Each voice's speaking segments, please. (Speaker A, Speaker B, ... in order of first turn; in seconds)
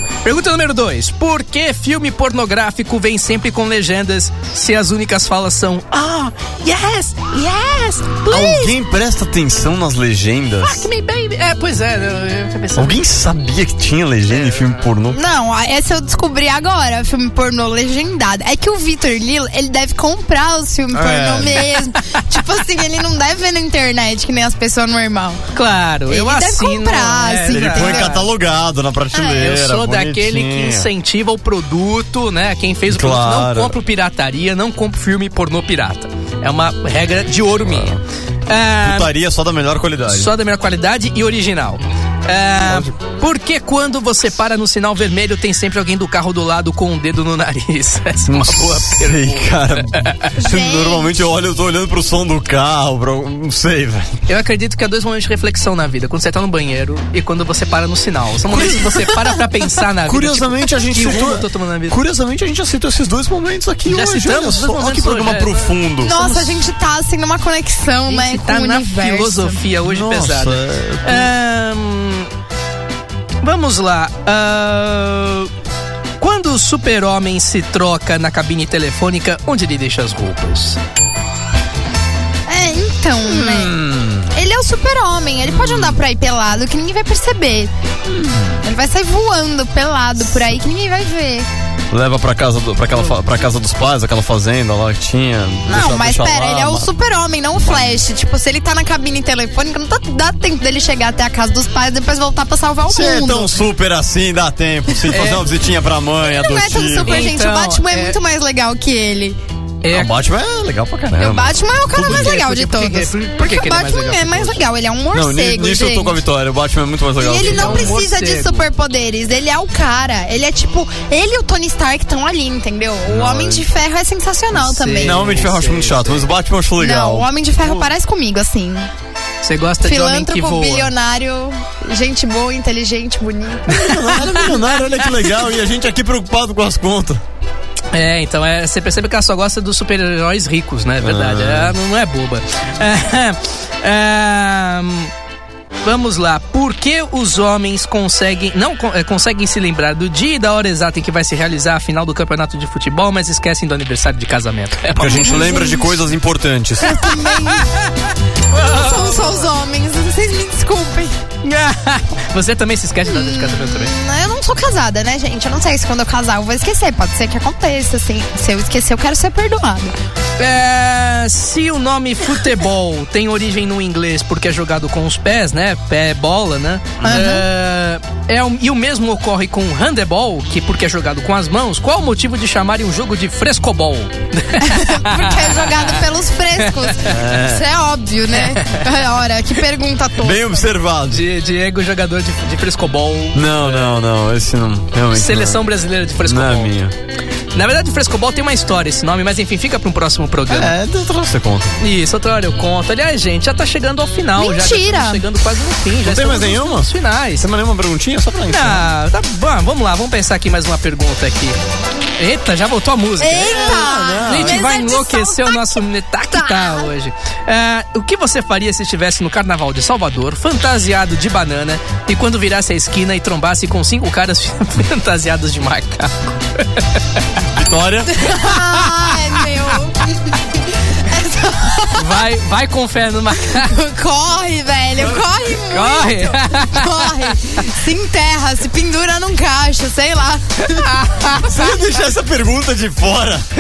Speaker A: 0.2-8.8, 10.6-13.0, 14.3-14.8, 25.5-28.2, 29.4-39.1, 40.1-50.3, 54.3-62.0, 63.9-66.6, 68.1-72.3, 73.4-75.5, 76.2-80.8, 105.1-105.5, 107.0-108.2, 109.8-110.1, 112.0-114.6, 117.4-118.7, 124.5-126.3, 129.4-130.9, 137.9-145.1, 145.8-155.6, 156.9-159.5, 161.4-163.9, 170.4-186.0, 186.6-187.0, 188.3-188.8, 191.1-194.1, 195.1-196.8, 197.6-200.7, 201.8-207.5, 208.5-211.6, 212.2-227.3, 228.4-229.4, 232.0-233.7, 235.7-237.4, 240.7-241.5
Speaker B: 8.3-10.9, 12.8-15.2, 20.9-21.7, 27.5-30.9, 32.9-33.8, 37.6-38.0, 38.8-40.3, 42.6-43.0, 48.3-54.2, 58.5-58.8, 60.1-66.1, 69.8-71.3, 83.3-84.4, 85.5-86.0, 88.1-88.6, 91.9-96.9, 97.6-98.0, 102.9-107.3, 109.9-112.4, 115.1-118.0, 123.1-123.7, 125.0-127.9, 133.7-137.2, 141.0-141.8, 154.9-157.1, 177.0-177.3, 187.1-187.7, 190.2-191.2, 193.3-195.6, 196.2-196.9, 200.5-201.8, 206.0-208.9, 213.4-214.7, 227.5-228.3, 241.3-243.5
Speaker C: 15.1-25.4, 26.1-28.2, 29.1-29.5, 50.4-51.2, 66.0-69.6, 82.5-83.8, 84.3-87.7, 88.6-91.5, 95.7-103.5, 106.2-109.4, 111.1-116.2, 117.2-125.4, 126.8-128.9, 129.8-134.0, 155.1-155.9, 156.8-157.7, 158.5-161.2, 163.1-169.9, 177.0-177.5, 184.6-190.7, 204.4-205.2, 213.2-216.9, 228.1-232.2, 233.5-241.0